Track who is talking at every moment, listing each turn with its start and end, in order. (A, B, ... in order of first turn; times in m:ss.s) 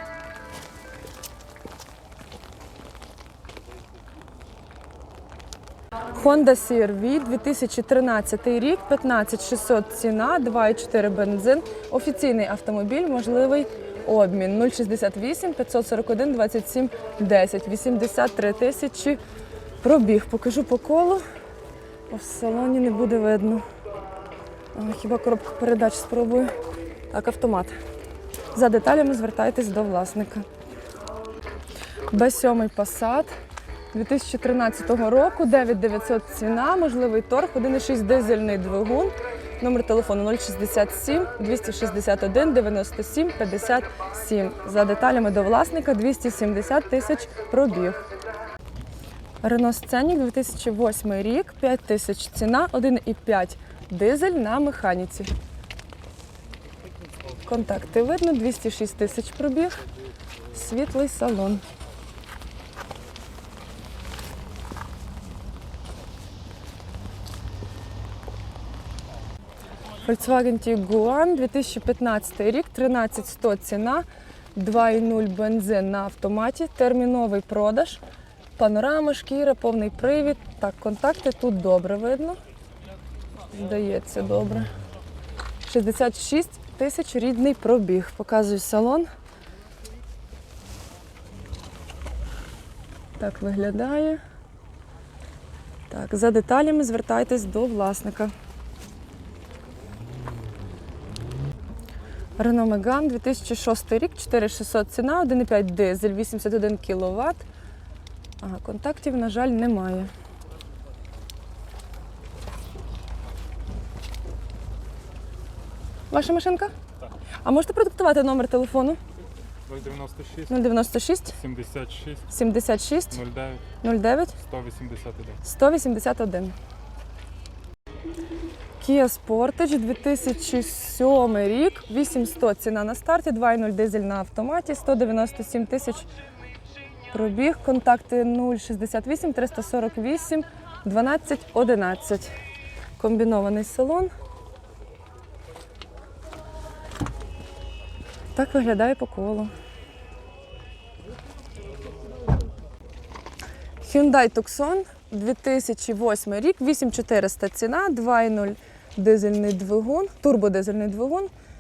0:06.1-0:19.2 A
0:19.8-0:21.2 A
0:22.1-0:23.6 A
0:24.7-0:26.5 A
0:27.1-0:27.7 A
0:28.5-0:30.5 A
0:32.1-0:33.3 A
0:33.9-0:48.0 A
0:49.4-0:55.3 A
0:57.5-0:59.8 A
1:00.5-1:01.6 A
1:10.0-1:18.0 A
1:18.6-1:22.4 A
1:23.5-1:24.7 A
1:25.7-1:29.1 A
1:33.2-1:34.2 A
1:35.9-1:38.3 A
1:42.4-1:47.4 A
1:48.4-1:50.1 A
1:56.1-1:56.7 A
1:57.4-1:59.0 A
1:59.7-2:00.6 B
2:00.5-2:01.4 A
2:01.4-2:02.3 B
2:02.3-2:03.2 A
2:03.1-2:03.7 B
2:03.8-2:04.3 A
2:04.4-2:05.4 B
2:05.4-2:06.6 A
2:08.8-2:16.1 A
2:17.1-2:22.3 A
2:23.0-2:24.1 A
2:28.4-2:29.5 A
2:33.8-2:41.3 A